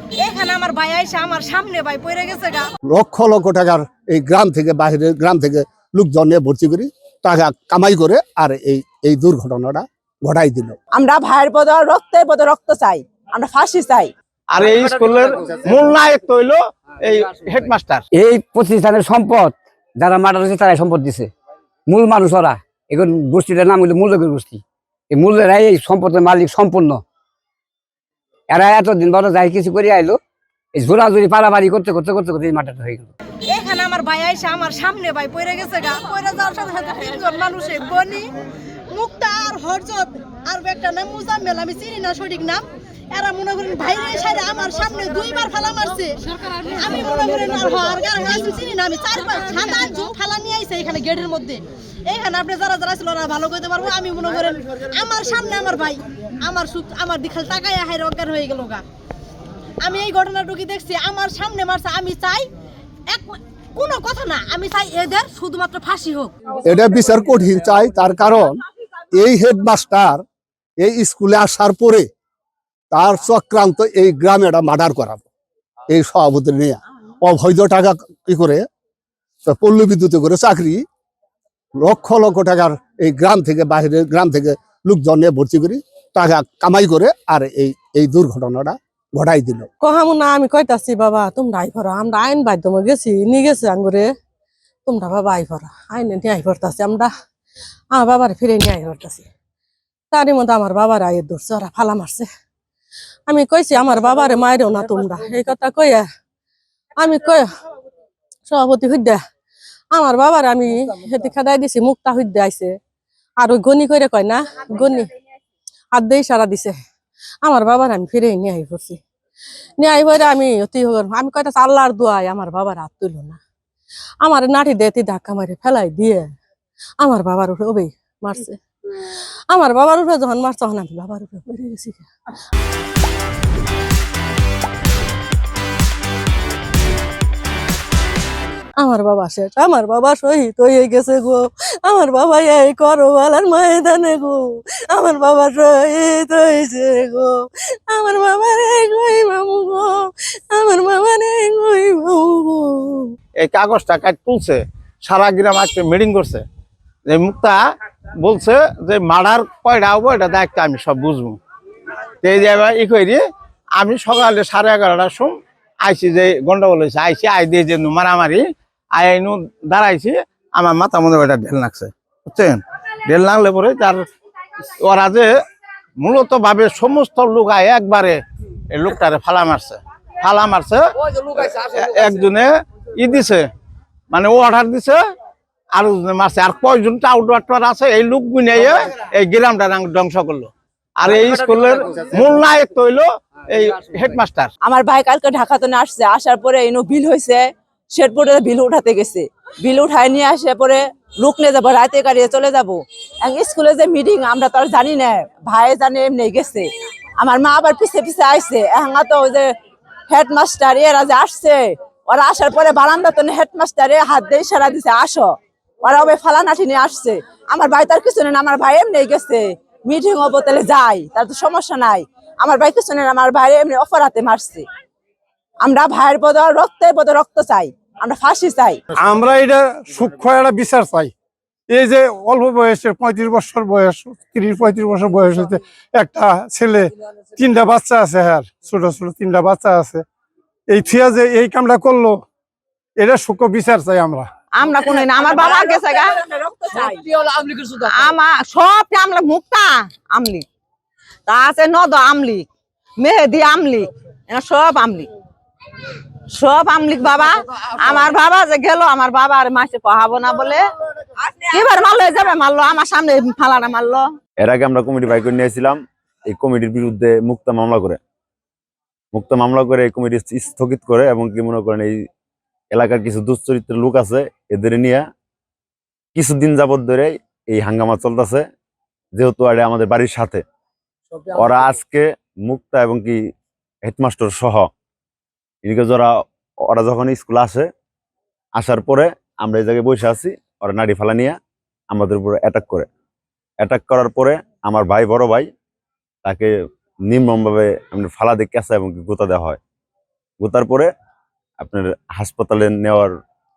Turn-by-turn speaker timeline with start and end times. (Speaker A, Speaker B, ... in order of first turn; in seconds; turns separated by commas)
Speaker A: 0.2-2.6, Speaker B: 2.9-10.7, Speaker C: 10.9-14.1, Speaker D: 14.5-18.0, Speaker E: 18.1-21.3, Speaker E: 21.9-27.0, Speaker E: 28.5-30.2, Speaker E: 30.7-33.1, Speaker A: 33.5-38.3, Speaker A: 38.9-58.8, Speaker A: 59.8-62.5, Speaker A: 63.1-66.3, Speaker B: 66.6-68.6, Speaker B: 69.1-70.2, Speaker B: 70.8-72.0, Speaker B: 72.9-75.2, Speaker B: 75.9-78.6, Speaker B: 79.5-80.8, Speaker B: 81.8-89.7, Speaker F: 89.8-94.1, Speaker F: 94.8-97.1, Speaker F: 97.9-99.3, Speaker F: 100.1-102.3, Speaker F: 103.3-106.0, Speaker F: 107.0-107.5, Speaker F: 108.5-109.2, Speaker F: 109.9-112.7, Speaker F: 113.4-115.1, Speaker F: 115.9-116.8, Speaker F: 117.4-119.0, Speaker F: 119.8-123.4, Speaker F: 124.2-126.3, Speaker F: 127.0-128.6, Speaker F: 129.5-132.1, Speaker F: 138.8-153.1, Speaker D: 153.4-156.4, Speaker D: 157.1-157.6, Speaker D: 158.2-161.4, Speaker D: 162.2-163.2, Speaker D: 163.8-165.3, Speaker D: 165.8-168.4, Speaker D: 168.9-174.1, Speaker D: 174.8-175.3, Speaker D: 176.0-178.2, Speaker D: 178.7-183.4, Speaker D: 184.1-185.0, Speaker D: 185.8-194.5, Speaker C: 194.6-209.5, Speaker C: 210.1-215.3, Speaker C: 215.8-224.7, Speaker C: 225.6-228.8, Speaker G: 229.0-231.1, Speaker G: 231.7-240.0, Speaker G: 240.7-242.2, Speaker G: 243.0-244.3, Speaker C: 244.6-250.4, Speaker C: 251.3-252.5, Speaker C: 253.0-255.1, Speaker C: 256.3-260.6, Speaker C: 261.4-264.0, Speaker H: 264.4-268.0, Speaker H: 269.1-272.0, Speaker H: 272.7-275.1, Speaker H: 276.1-278.4, Speaker H: 279.1-280.4, Speaker H: 281.3-283.2, Speaker H: 283.8-284.7, Speaker H: 285.6-286.1, Speaker H: 286.7-287.7, Speaker H: 288.5-291.4, Speaker H: 291.9-292.9, Speaker H: 293.6-295.5, Speaker H: 296.2-296.5, Speaker H: 297.1-299.6, Speaker H: 300.4-300.9, Speaker H: 301.6-303.1